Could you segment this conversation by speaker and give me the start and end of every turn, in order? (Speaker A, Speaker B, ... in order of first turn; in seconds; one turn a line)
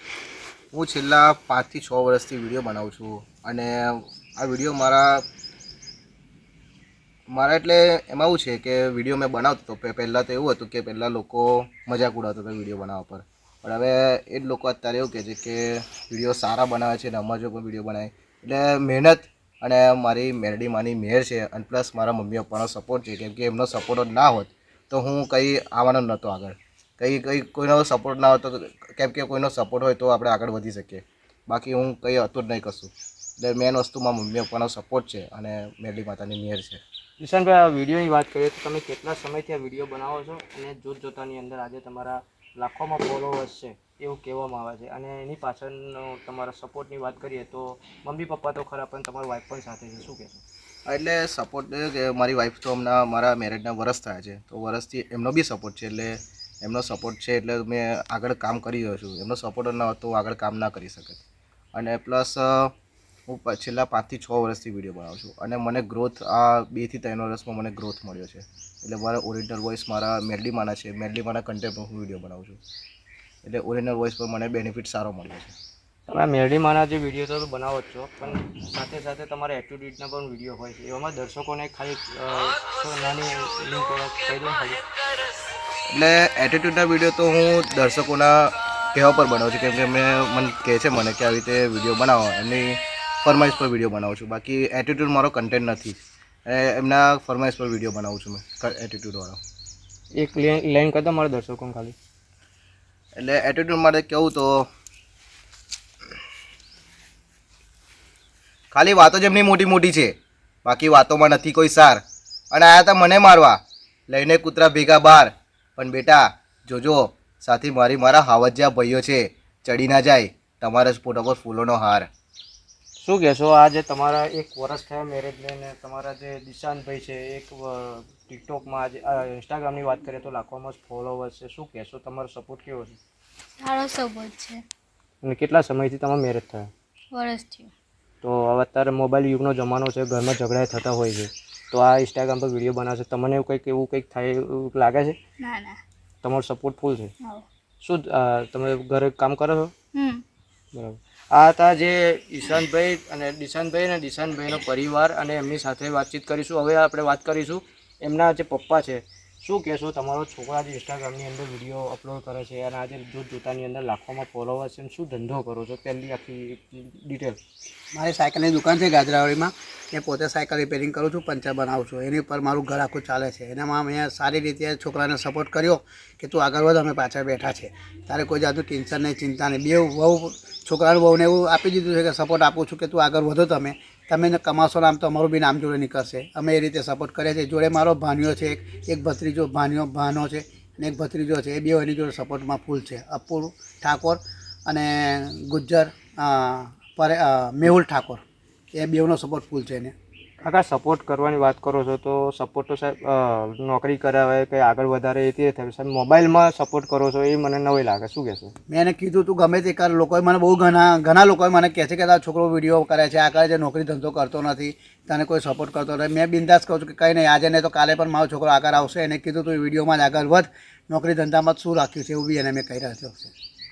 Speaker A: 0.7-5.2
Speaker A: 7.3-36.8
Speaker B: 37.2-50.4
Speaker A: 50.9-61.2
Speaker A: 61.8-62.7
Speaker A: 63.3-72.6
Speaker A: 73.4-75.5
Speaker B: 76.1-84.8
Speaker A: 85.9-99.4
Speaker B: 100.2-102.0
Speaker A: 103.2-104.7
Speaker A: 108.7-122.1
Speaker B: 123.0-133.0
Speaker C: 133.6-134.6
Speaker B: 135.2-136.7
Speaker C: 137.1-137.7
Speaker B: 138.2-145.2
Speaker C: 145.4-145.8
Speaker B: 146.2-147.1
Speaker C: 147.2-147.4
Speaker B: 147.8-149.7
Speaker C: 149.9-150.2
Speaker B: 150.7-167.4
Speaker D: 167.9-198.2
Speaker D: 198.7-199.9
Speaker B: 200.4-208.5
Speaker D: 208.7-223.3